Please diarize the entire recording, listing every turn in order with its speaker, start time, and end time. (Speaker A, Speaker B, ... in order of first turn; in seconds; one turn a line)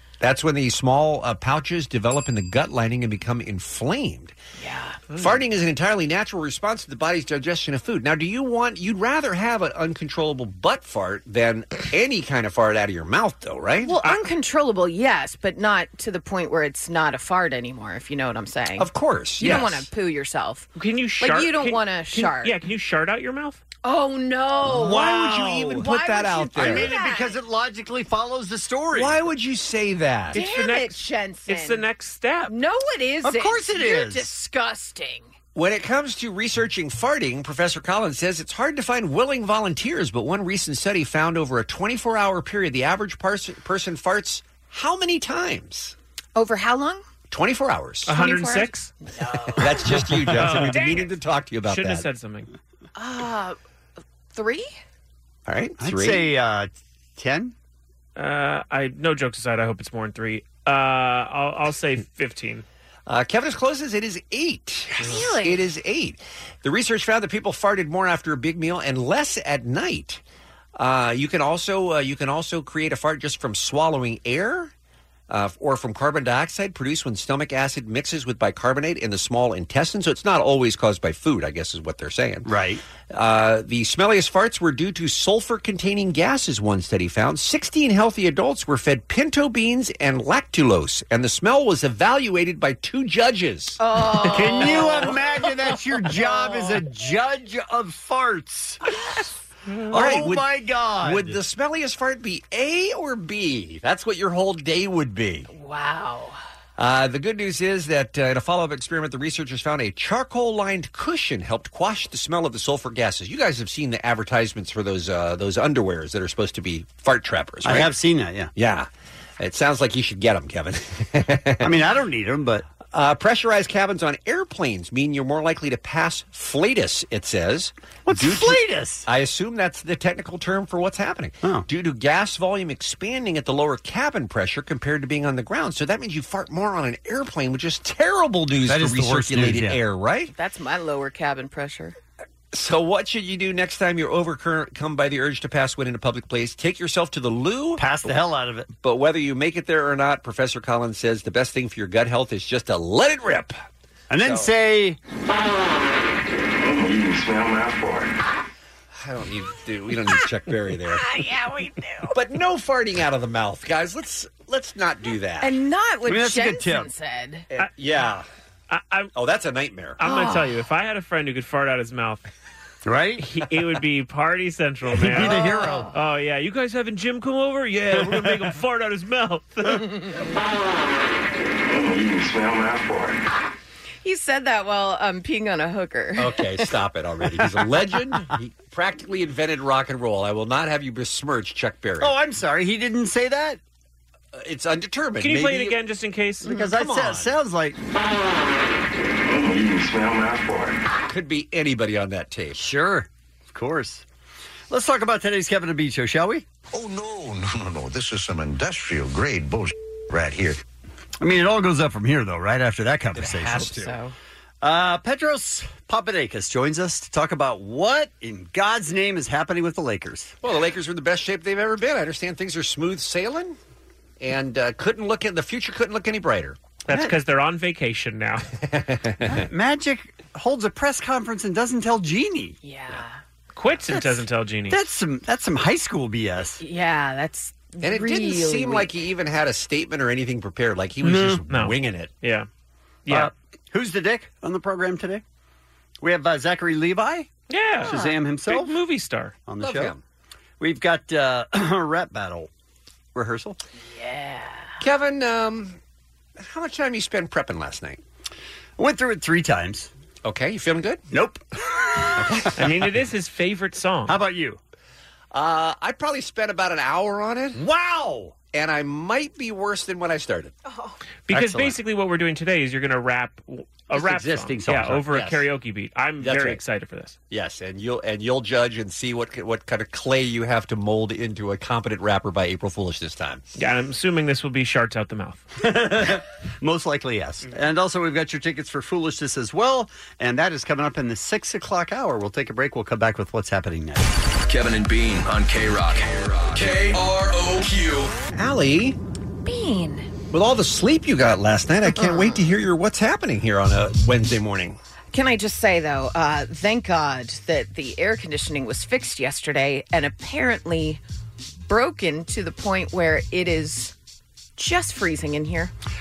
Speaker A: 0.2-4.3
Speaker B: 4.6-5.0
Speaker A: 5.2-13.9
Speaker B: 13.8-22.6
Speaker A: 18.8-19.9
Speaker C: 19.4-19.7
Speaker D: 20.8-23.6
Speaker B: 23.8-27.4
Speaker A: 24.6-26.9
Speaker C: 24.7-25.6
Speaker C: 26.6-29.2
Speaker A: 28.9-30.4
Speaker D: 30.3-32.5
Speaker B: 30.3-31.8
Speaker B: 32.5-35.3
Speaker C: 33.2-34.3
Speaker A: 35.5-46.0
Speaker B: 46.4-47.0
Speaker A: 47.3-48.1
Speaker D: 48.0-48.9
Speaker B: 48.1-49.8
Speaker A: 49.6-52.1
Speaker D: 50.4-51.0
Speaker B: 50.8-51.1
Speaker D: 51.6-52.5
Speaker B: 53.0-53.6
Speaker B: 54.3-54.7
Speaker A: 55.5-56.3
Speaker C: 55.8-57.5
Speaker D: 58.2-62.6
Speaker A: 63.1-70.2
Speaker B: 65.0-65.6
Speaker A: 70.8-74.7
Speaker A: 75.3-82.5
Speaker C: 82.5-82.8
Speaker A: 83.1-93.8
Speaker B: 93.8-95.4
Speaker C: 94.3-98.8
Speaker B: 96.2-96.7
Speaker C: 99.9-101.4
Speaker A: 99.9-100.5
Speaker A: 101.0-105.5
Speaker B: 105.5-106.4
Speaker A: 106.8-117.9
Speaker C: 117.7-118.5
Speaker A: 118.6-121.8
Speaker C: 121.6-122.6
Speaker A: 122.9-140.3
Speaker C: 128.1-129.0
Speaker C: 138.7-139.8
Speaker B: 140.3-141.9
Speaker A: 142.5-148.1
Speaker C: 147.8-148.7
Speaker A: 148.8-153.6
Speaker C: 154.1-155.0
Speaker A: 154.2-154.5
Speaker E: 156.6-158.2
Speaker A: 158.9-161.0
Speaker B: 160.9-162.1
Speaker A: 162.1-165.6
Speaker B: 165.4-167.5
Speaker C: 166.1-166.9
Speaker A: 167.5-168.3
Speaker D: 168.7-169.1
Speaker A: 169.2-170.0
Speaker D: 170.0-172.2
Speaker B: 170.0-170.5
Speaker C: 172.8-173.3
Speaker D: 173.2-179.9
Speaker C: 174.9-175.9
Speaker B: 175.2-175.9
Speaker B: 179.8-180.3
Speaker E: 181.6-183.2
Speaker B: 184.0-186.5
Speaker A: 186.2-192.2
Speaker C: 192.0-193.6
Speaker A: 194.3-195.8
Speaker D: 195.2-196.5
Speaker C: 196.4-197.8
Speaker A: 196.6-197.3
Speaker E: 199.2-200.8
Speaker A: 201.1-202.7
Speaker C: 202.6-204.0
Speaker C: 204.7-206.4
Speaker F: 206.7-210.6
Speaker C: 211.2-213.7
Speaker A: 213.2-213.9
Speaker B: 213.6-214.1
Speaker C: 214.6-220.3
Speaker A: 220.4-223.6
Speaker A: 224.2-227.1
Speaker D: 226.9-228.5
Speaker A: 228.6-229.4
Speaker C: 229.3-232.6
Speaker B: 232.6-233.2
Speaker D: 233.6-234.8
Speaker C: 233.9-234.2
Speaker C: 234.7-236.6
Speaker B: 236.6-238.9
Speaker A: 237.8-242.1
Speaker D: 241.0-242.5
Speaker C: 241.1-241.4
Speaker D: 243.1-243.3
Speaker C: 243.1-245.2
Speaker C: 246.0-247.3
Speaker D: 247.5-249.3
Speaker C: 247.8-248.8
Speaker B: 247.8-248.2
Speaker C: 249.5-249.9
Speaker A: 249.6-250.0
Speaker C: 250.6-252.5
Speaker C: 253.2-253.6
Speaker B: 253.9-254.8
Speaker A: 254.8-255.8
Speaker A: 256.4-258.0
Speaker C: 258.8-259.9
Speaker A: 260.2-261.0
Speaker C: 261.1-262.5
Speaker A: 262.2-262.6
Speaker D: 262.6-264.2
Speaker C: 264.1-264.6
Speaker A: 265.3-267.6
Speaker C: 267.6-268.4
Speaker A: 268.5-270.5
Speaker B: 270.7-271.0
Speaker D: 271.3-277.2
Speaker C: 271.3-271.8
Speaker C: 273.9-275.3
Speaker A: 276.2-276.6
Speaker A: 277.3-283.4
Speaker D: 283.6-285.4
Speaker C: 285.6-294.1
Speaker E: 294.4-298.2
Speaker A: 298.3-299.0
Speaker B: 299.4-300.1
Speaker A: 300.3-304.8
Speaker B: 301.9-302.5
Speaker B: 305.1-311.0
Speaker B: 311.7-313.9
Speaker B: 314.6-315.7